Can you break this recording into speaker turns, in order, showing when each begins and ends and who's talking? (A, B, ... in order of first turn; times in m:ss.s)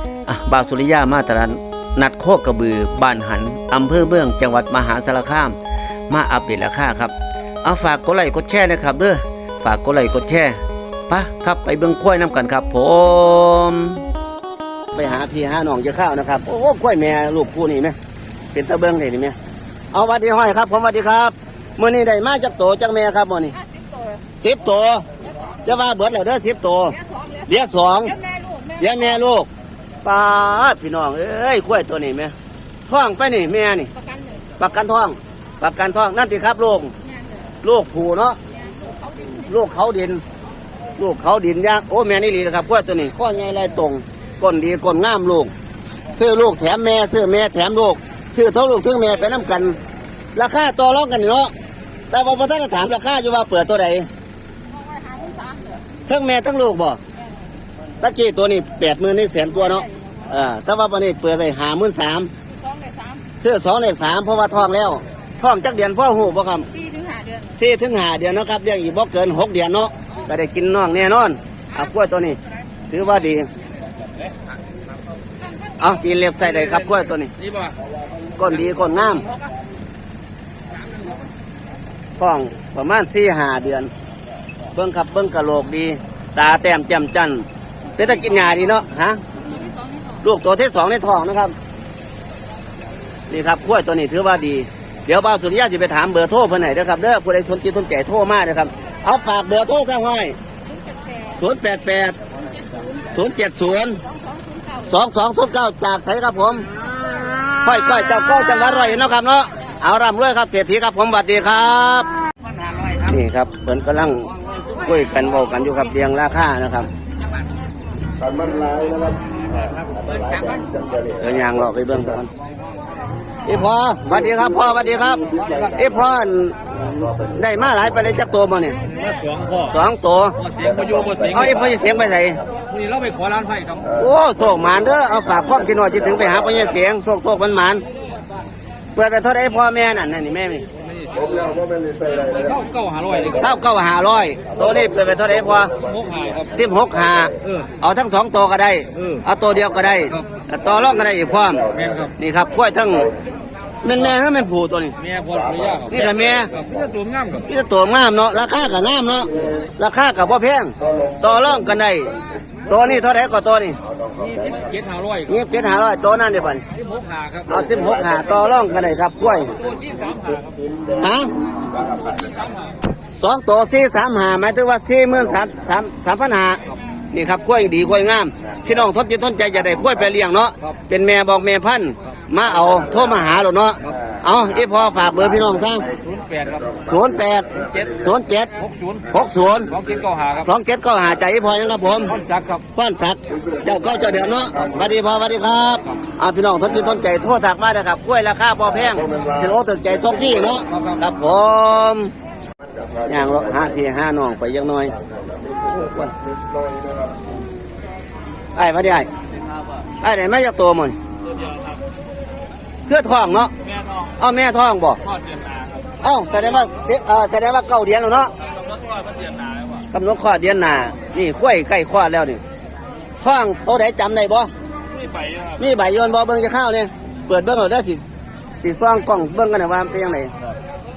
0:00.3-0:05.6 A
0:06.1-0:07.1 A
0:07.6-0:10.6 A
0:11.1-0:14.0 A
0:14.9-0:18.0 A
0:18.5-0:19.4 A
0:19.9-0:23.6 A
0:23.6-0:24.2 B
0:24.4-0:25.0 A
0:25.6-0:28.2 A
0:27.0-0:27.5 B
0:28.0-0:29.1 B
0:28.8-0:29.5 A
0:30.0-0:32.3 A
0:32.9-0:33.9 A
0:34.0-0:34.4 B
0:34.6-0:36.9 A
0:37.1-0:37.3 B
0:37.6-0:38.4 A
0:38.6-0:39.5 B
0:39.4-0:40.2 A
0:41.0-0:45.5 A
0:46.1-0:49.8 A
0:50.4-0:51.5 A
0:52.1-0:54.1 A
0:54.8-0:55.8 B
0:56.1-0:57.0 A
0:58.0-1:02.3 A
1:02.6-1:03.2 B
1:03.4-1:06.7 A
1:06.7-1:07.5 B
1:07.5-1:13.5 A
1:15.8-1:17.3 A
1:16.4-1:17.8 C
1:18.4-1:19.3 A
1:20.8-1:21.2 C
1:22.2-1:23.9 A
1:24.7-1:27.5 A
1:28.0-1:29.2 A
1:29.5-1:30.1 B
1:30.2-1:31.5 A
1:33.3-1:40.4 A
1:40.8-1:41.3 B
1:41.4-1:42.2 A
1:42.6-1:43.0 B
1:43.1-1:44.0 A
1:44.1-1:44.8 B
1:44.8-1:46.7 A
1:47.6-1:52.1 A
1:52.8-1:56.9 A
1:59.6-2:00.8 C
2:01.2-2:02.3 A
2:03.4-2:08.8 A
2:05.4-2:05.8 C
2:08.8-2:09.8 C
2:09.7-2:10.4 A
2:10.4-2:11.8 C
2:11.3-2:12.4 A
2:12.6-2:13.9 C
2:14.0-2:17.8 A
2:19.0-2:20.7 A
2:20.8-2:23.5 C
2:23.3-2:25.8 A
2:25.8-2:26.6 C
2:26.5-2:31.7 A
2:27.4-2:27.7 C
2:29.0-2:29.2 C
2:31.7-2:32.2 C
2:32.2-2:33.1 A
2:33.8-2:35.0 A
2:35.0-2:37.5 C
2:35.9-2:36.5 A
2:37.5-2:42.2 A
2:42.7-2:43.8 A
2:44.1-2:45.5 C
2:45.3-2:46.6 A
2:46.7-2:47.7 C
2:47.5-2:49.5 A
2:49.5-2:50.7 C
2:50.9-2:51.3 A
2:51.8-2:52.8 C
2:53.2-2:56.6 A
2:57.1-3:05.9 A
3:06.0-3:06.8 C
3:06.9-3:08.6 A
3:07.6-3:07.9 C
3:08.6-3:10.5 C
3:09.1-3:09.7 A
3:10.4-3:12.1 A
3:12.0-3:12.6 C
3:12.7-3:22.1 A
3:20.7-3:21.0 C
3:23.0-3:25.0 A
3:25.6-3:26.1 A
3:28.6-3:29.1 A
3:30.0-3:31.0 A
3:31.2-3:31.8 C
3:32.9-3:33.5 A
3:33.6-3:34.2 C
3:34.2-3:35.0 A
3:35.0-3:35.9 C
3:36.0-3:38.3 A
3:38.5-3:39.9 C
3:39.9-3:42.4 A
3:43.2-3:44.5 A
3:44.9-3:45.6 C
3:45.6-3:48.0 A
3:48.6-3:50.3 A